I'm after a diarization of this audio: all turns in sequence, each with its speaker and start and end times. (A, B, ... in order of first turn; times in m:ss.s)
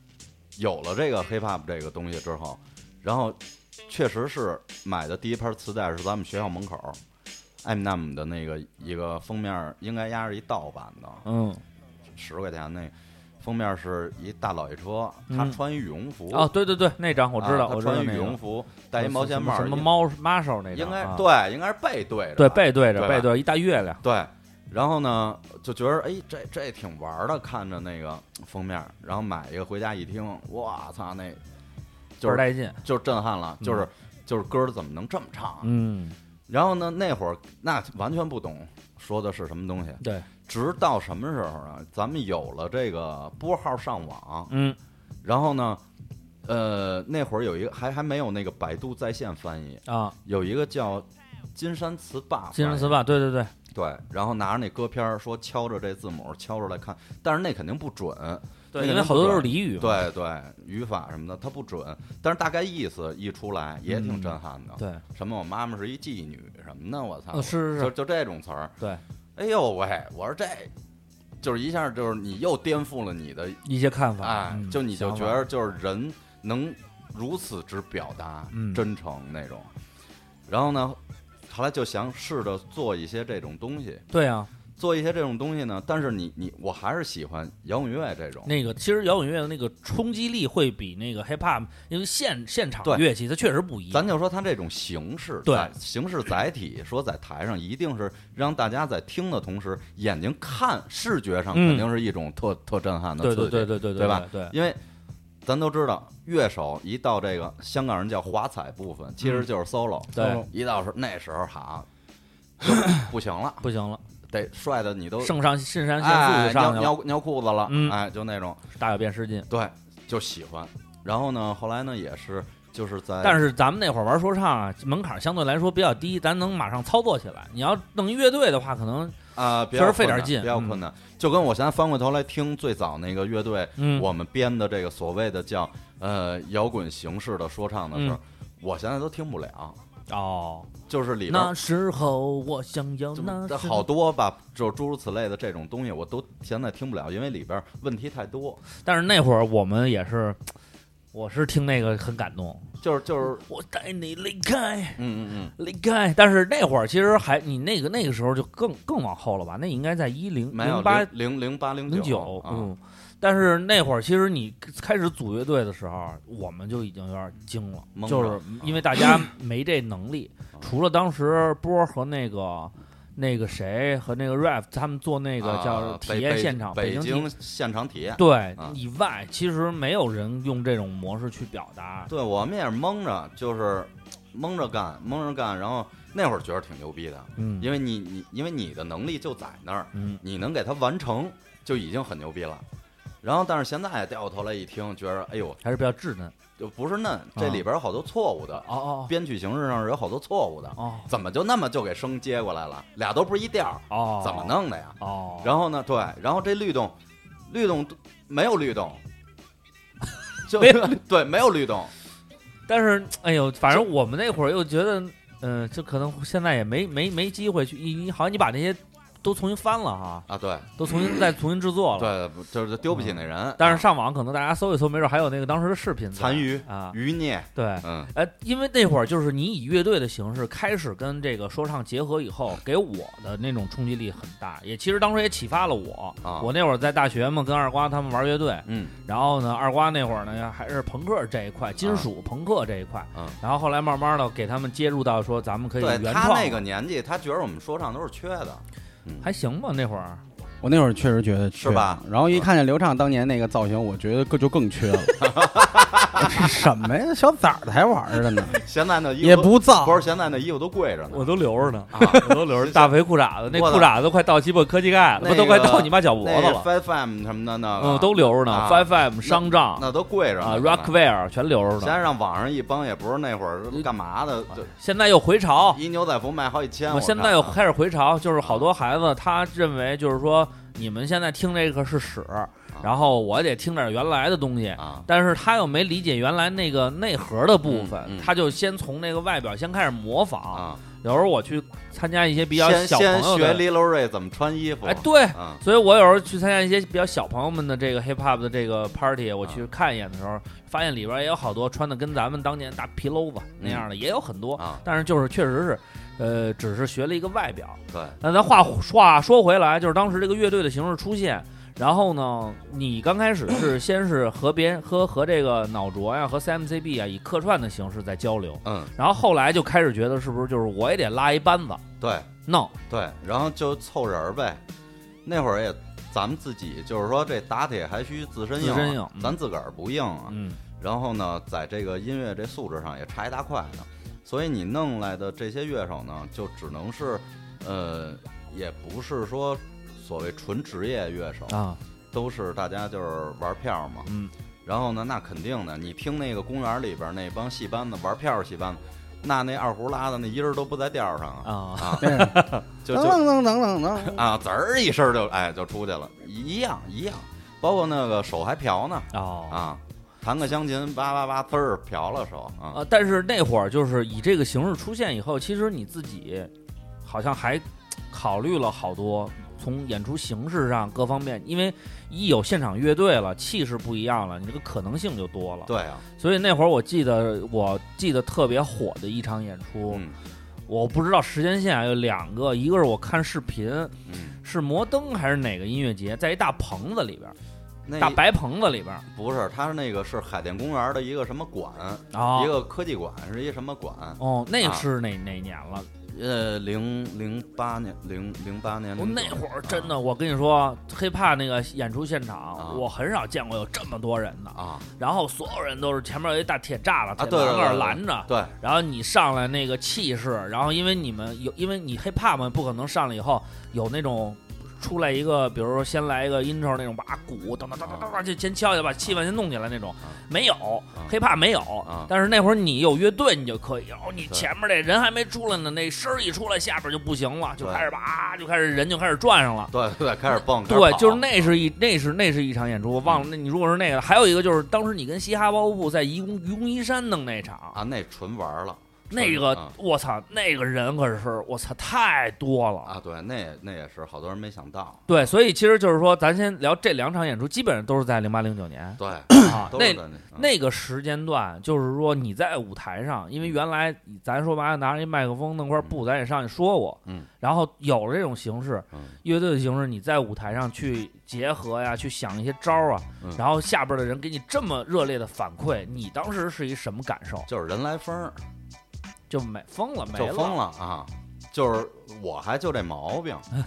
0:00.6-0:07.0 A
0:07.6-0:11.2 A
0:11.2-0:11.6 B
0:12.2-0:16.5 A
0:15.3-0:15.6 B
0:16.3-0:18.4 B
0:17.4-0:19.9 A
0:19.0-0:21.2 B
0:20.7-0:23.3 A
0:22.4-0:24.0 B
0:24.0-0:31.4 A
0:32.2-0:35.7 A
0:32.2-0:32.8 B
0:35.6-0:36.2 B
0:36.5-0:44.5 A
0:40.0-0:40.3 B
0:44.5-0:44.8 B
0:45.2-0:45.8 A
0:46.4-0:53.0 A
0:49.9-0:50.1 B
0:52.5-0:53.5 B
0:53.7-1:08.7 A
0:58.7-1:00.1 B
1:03.9-1:05.0 B
1:07.3-1:07.9 B
1:09.4-1:10.7 A
1:11.4-1:13.6 A
1:13.6-1:15.4 B
1:14.2-1:19.7 A
1:18.5-1:18.8 B
1:20.5-1:24.0 A
1:24.1-1:24.5 B
1:24.8-1:28.5 A
1:28.4-1:34.1 B
1:33.9-1:44.8 A
1:35.4-1:35.7 B
1:41.5-1:41.9 B
1:43.2-1:44.5 B
1:45.4-1:51.9 A
1:50.1-1:50.4 B
1:50.2-1:50.4 C
1:52.6-1:53.6 A
1:53.6-1:54.0 B
1:54.3-1:55.4 A
1:55.2-1:56.9 B
1:56.0-1:58.6 A
1:57.7-1:58.0 B
1:58.8-1:59.5 B
1:59.5-2:03.4 A
2:03.2-2:09.2 B
2:09.4-2:19.8 A
2:09.7-2:10.8 B
2:13.8-2:14.1 B
2:20.1-2:20.7 B
2:20.9-2:21.5 A
2:21.3-2:23.9 B
2:23.2-2:28.6 A
2:28.8-2:30.5 B
2:31.1-2:32.7 B
2:32.8-2:33.4 A
2:33.4-2:35.0 B
2:35.0-2:35.5 A
2:35.6-2:41.1 B
2:40.5-2:42.7 A
2:41.9-2:57.3 B
2:47.9-2:49.0 A
2:55.4-2:58.8 A
2:58.2-3:02.1 B
3:02.1-3:12.6 A
3:07.4-3:07.7 B
3:09.9-3:10.2 B
3:13.2-3:15.6 A
3:15.6-3:16.3 B
3:16.6-3:27.0 A
3:17.4-3:17.6 B
3:18.6-3:19.1 B
3:20.8-3:21.1 B
3:23.9-3:25.5 B
3:27.5-3:29.0 A
3:30.4-3:31.9 A
3:30.6-3:31.0 B
3:32.7-3:40.3 B
3:40.3-3:41.3 A
3:40.8-3:42.1 B
3:42.0-3:43.8 A
3:42.9-3:47.0 B
3:46.2-3:48.1 A
3:47.5-4:06.6 B
3:56.2-3:56.5 A
3:58.7-3:58.9 A
4:05.8-4:09.3 A
4:09.2-4:10.2 B
4:10.6-4:15.3 C
4:11.5-4:12.5 A
4:15.2-4:16.5 A
4:16.1-4:18.6 C
4:18.2-4:21.3 A
4:19.2-4:20.0 C
4:21.1-4:26.6 B
4:21.9-4:22.9 A
4:23.5-4:23.9 A
4:25.2-4:30.9 A
4:27.8-4:29.8 B
4:30.4-4:31.9 B
4:31.8-4:34.7 A
4:34.6-4:35.8 B
4:35.7-4:37.6 A
4:36.9-4:53.6 B
4:38.4-4:38.7 A
4:44.8-4:45.1 A
4:47.6-4:48.3 A
4:50.5-4:50.8 A
4:52.5-4:55.6 A
4:54.8-5:21.8 B
5:03.6-5:03.8 A
5:04.6-5:04.8 A
5:07.9-5:08.2 A
5:18.6-5:18.9 A
5:22.0-5:22.3 A
5:22.5-5:22.7 B
5:22.9-5:24.6 A
5:25.2-5:41.6 A
5:28.6-5:29.4 B
5:30.3-5:30.6 B
5:41.5-5:41.8 B
5:42.1-5:44.1 A
5:44.1-5:44.3 B
5:44.6-5:53.2 A
5:51.4-5:52.6 B
5:52.0-5:54.2 C
5:54.0-6:02.8 A
5:59.1-5:59.6 B
6:02.7-6:06.5 B
6:07.0-6:20.0 B
6:15.7-6:16.0 A
6:19.9-6:20.1 A
6:20.7-6:23.9 B
6:24.0-6:24.4 A
6:24.4-6:27.3 B
6:27.8-6:28.2 A
6:28.0-6:29.0 B
6:29.1-6:34.8 A
6:32.1-6:32.5 B
6:34.2-6:35.9 B
6:36.1-6:39.9 A
6:39.0-7:09.7 B
6:42.6-6:42.8 A
6:44.5-6:44.9 A
6:47.2-6:48.5 A
6:57.8-6:58.2 A
7:01.8-7:02.1 A
7:07.6-7:07.9 A
7:09.7-7:11.5 A
7:10.6-7:17.8 B
7:17.7-7:19.7 A
7:19.1-7:22.9 B
7:22.8-7:25.1 A
7:25.1-7:47.5 B
7:29.0-7:30.5 A
7:47.5-7:48.4 A
7:49.3-7:50.6 B
7:50.1-7:53.5 A